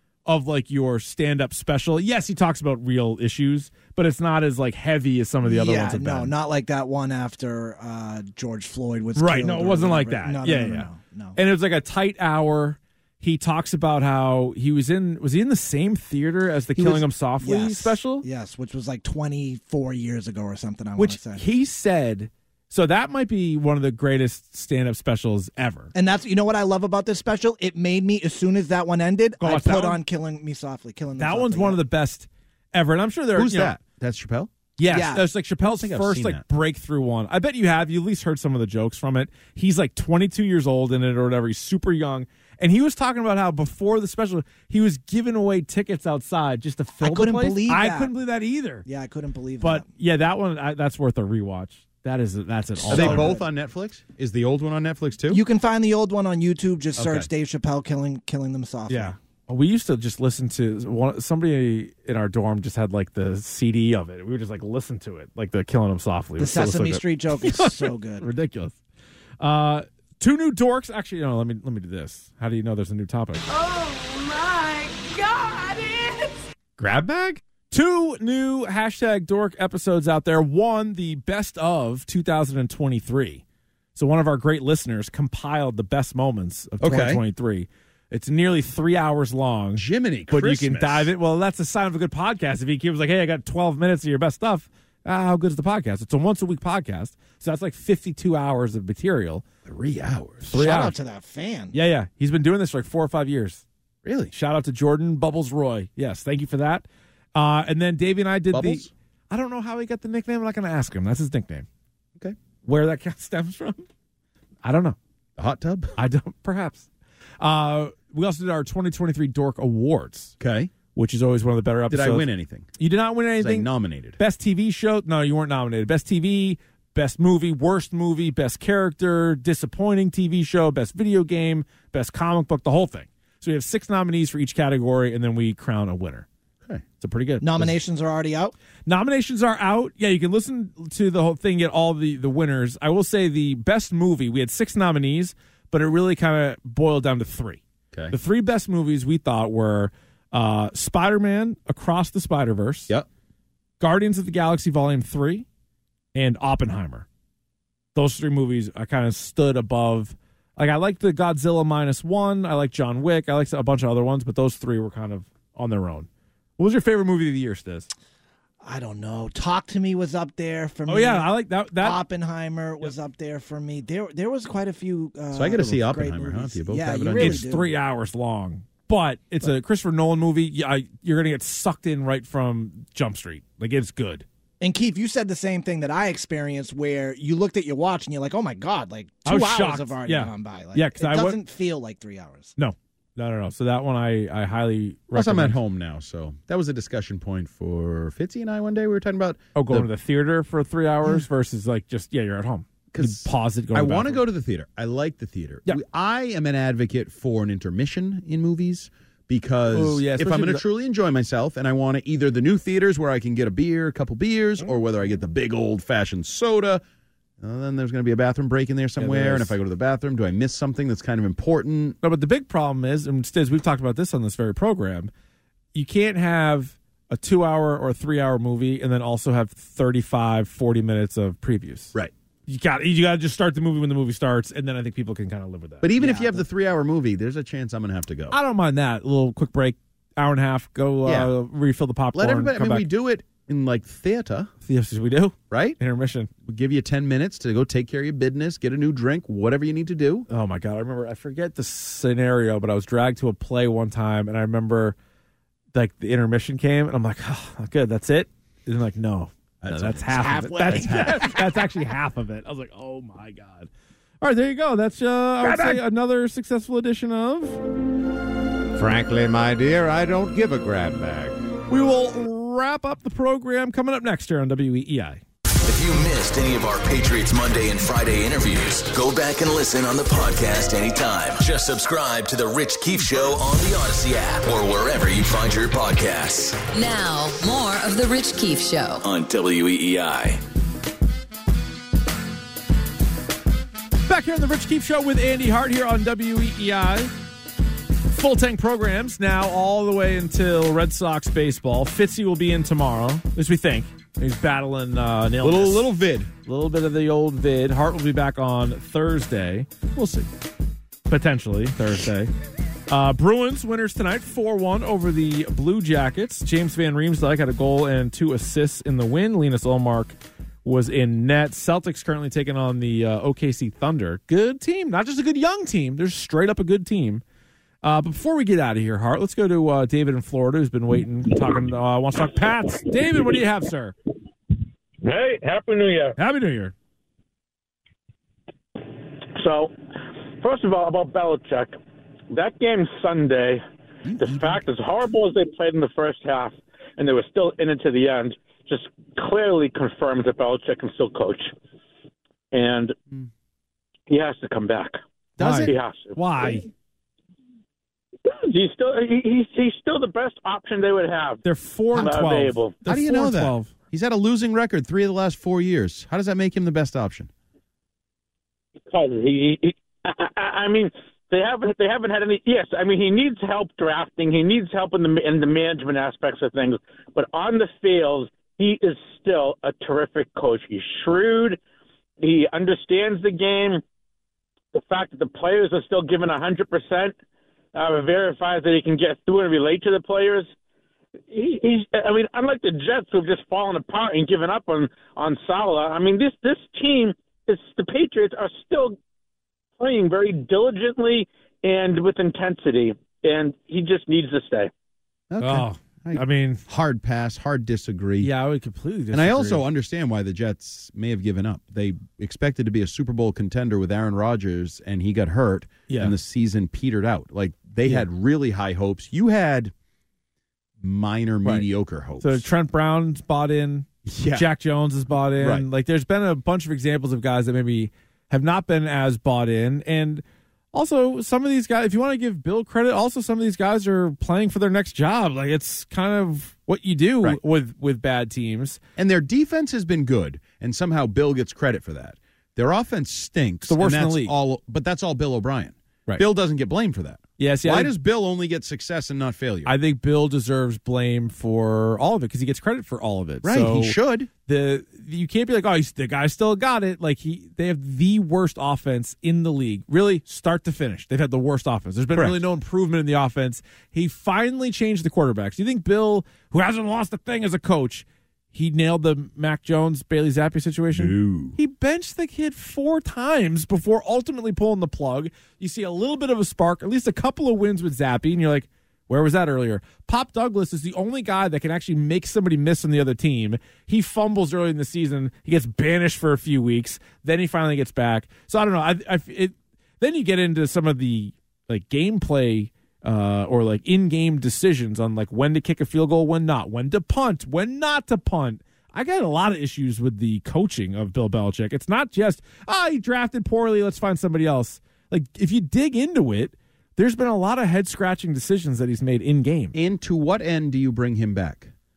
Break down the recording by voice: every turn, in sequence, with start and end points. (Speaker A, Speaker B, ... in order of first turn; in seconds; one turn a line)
Speaker A: 0.2-6.3
Speaker B: 5.4-11.4
Speaker A: 9.2-18.2
Speaker B: 16.8-21.4
Speaker A: 21.0-25.9
Speaker B: 25.9-31.8
Speaker A: 29.4-30.0
Speaker A: 31.2-33.8
Speaker C: 33.3-34.5
Speaker A: 34.8-48.8
Speaker B: 34.8-35.2
Speaker C: 35.6-36.4
Speaker B: 47.0-48.1
Speaker B: 48.8-49.9
Speaker A: 49.6-53.4
Speaker B: 52.8-53.5
Speaker C: 52.9-55.4
Speaker B: 55.3-59.1
Speaker C: 57.0-57.3
Speaker A: 58.9-68.8
Speaker B: 66.4-68.3
Speaker A: 69.4-73.5
Speaker A: 76.8-83.4
Speaker A: 83.9-99.4
Speaker C: 86.8-87.2
Speaker C: 89.8-91.1
Speaker C: 99.6-100.6
Speaker A: 100.4-100.9
Speaker B: 100.5-101.7
Speaker A: 101.7-103.6
Speaker C: 104.0-104.3
Speaker A: 104.3-111.7
Speaker C: 108.5-108.9
Speaker A: 112.6-113.8
Speaker A: 114.6-115.0
Speaker C: 115.4-116.0
Speaker A: 116.0-116.8
Speaker A: 117.4-120.3
Speaker C: 120.4-120.7
Speaker A: 120.9-136.3
Speaker C: 121.9-122.7
Speaker C: 123.4-124.2
Speaker A: 137.0-137.8
Speaker B: 137.4-138.5
Speaker A: 138.8-152.9
Speaker A: 153.8-155.4
Speaker A: 156.1-157.1
Speaker A: 157.9-167.9
Speaker B: 168.6-177.7
Speaker A: 170.9-172.0
Speaker C: 175.3-177.4
Speaker A: 177.1-184.2
Speaker B: 184.6-192.6
Speaker A: 189.2-191.4
Speaker A: 192.6-195.6
Speaker C: 195.1-199.9
Speaker A: 199.5-204.2
Speaker C: 202.9-216.8
Speaker A: 209.7-210.6
Speaker C: 217.4-222.0
Speaker A: 219.0-219.5
Speaker A: 222.0-225.1
Speaker A: 225.7-231.9
Speaker A: 232.5-235.9
Speaker C: 235.8-238.3
Speaker B: 235.9-236.4
Speaker A: 238.3-242.9
Speaker C: 241.0-241.3
Speaker C: 242.1-244.5
Speaker A: 244.6-246.3
Speaker C: 245.5-245.8
Speaker C: 246.4-250.2
Speaker A: 250.3-254.9
Speaker A: 255.7-263.7
Speaker C: 259.6-261.4
Speaker B: 260.3-261.4
Speaker A: 264.2-267.6
Speaker C: 265.4-265.8
Speaker D: 268.7-271.3
Speaker A: 271.7-275.2
Speaker E: 275.6-286.6
Speaker F: 286.7-289.0
Speaker E: 289.0-290.4
Speaker A: 294.1-297.1
Speaker A: 298.1-305.9
Speaker C: 305.4-306.3
Speaker A: 306.4-309.7
Speaker C: 309.9-310.3
Speaker A: 311.1-312.3
Speaker A: 312.9-327.2
Speaker A: 327.8-333.9
Speaker G: 335.0-336.1
Speaker A: 336.2-336.7
Speaker G: 339.3-339.7
Speaker G: 340.4-341.7
Speaker G: 342.3-343.6
Speaker C: 344.0-344.6
Speaker G: 344.2-351.5
Speaker G: 352.5-352.9
Speaker G: 354.1-354.9
Speaker C: 355.4-355.7
Speaker A: 355.4-356.7
Speaker G: 355.6-356.6
Speaker G: 358.2-361.4
Speaker A: 361.4-363.7
Speaker G: 361.9-362.8
Speaker C: 362.8-367.3
Speaker G: 368.9-381.6
Speaker G: 382.2-383.8
Speaker G: 384.7-387.1
Speaker G: 387.7-390.5
Speaker G: 391.3-399.0
Speaker G: 399.8-404.7
Speaker C: 405.3-408.3
Speaker A: 405.4-406.6
Speaker A: 408.2-409.6
Speaker C: 409.1-419.7
Speaker A: 415.9-416.1
Speaker C: 420.8-422.5
Speaker A: 422.2-438.8
Speaker C: 424.0-424.5
Speaker C: 425.4-425.7
Speaker C: 438.9-449.8
Speaker A: 443.6-444.3
Speaker A: 447.4-447.9
Speaker A: 449.6-509.8
Speaker C: 453.4-454.3
Speaker C: 462.1-462.4
Speaker C: 470.9-471.6
Speaker C: 509.7-511.7